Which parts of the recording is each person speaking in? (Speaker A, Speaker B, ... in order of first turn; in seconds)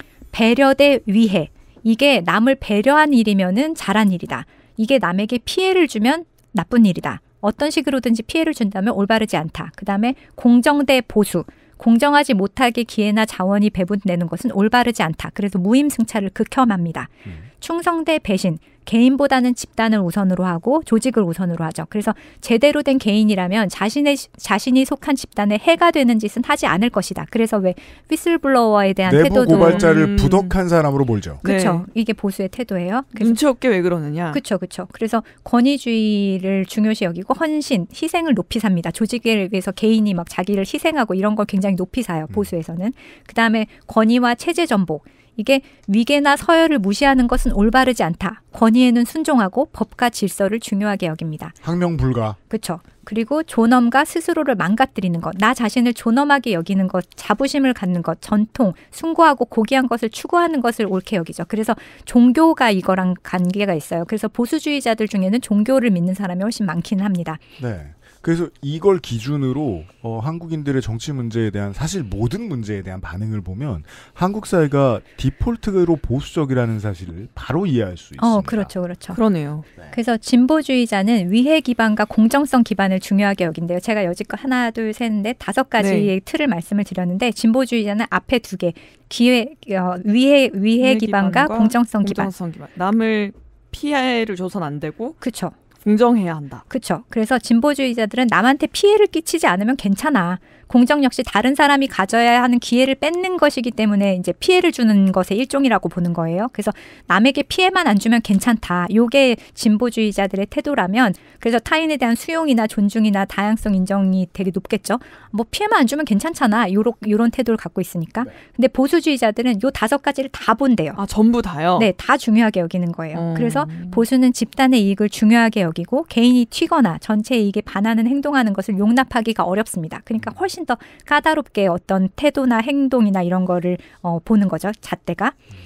Speaker A: 0.3-29.9, 31.4-33.4, 34.3-51.6, 52.5-67.4, 78.2-79.2, 79.9-92.3, 95.2-95.5, 96.7-121.0, 121.8-135.4
Speaker B: 29.1-31.4, 51.6-52.4, 67.6-78.7
Speaker C: 29.5-30.6, 31.4-31.9, 33.2-34.4, 79.1-79.7, 85.8-86.1, 90.8-95.2, 95.8-96.7, 121.0-121.9, 123.1-124.0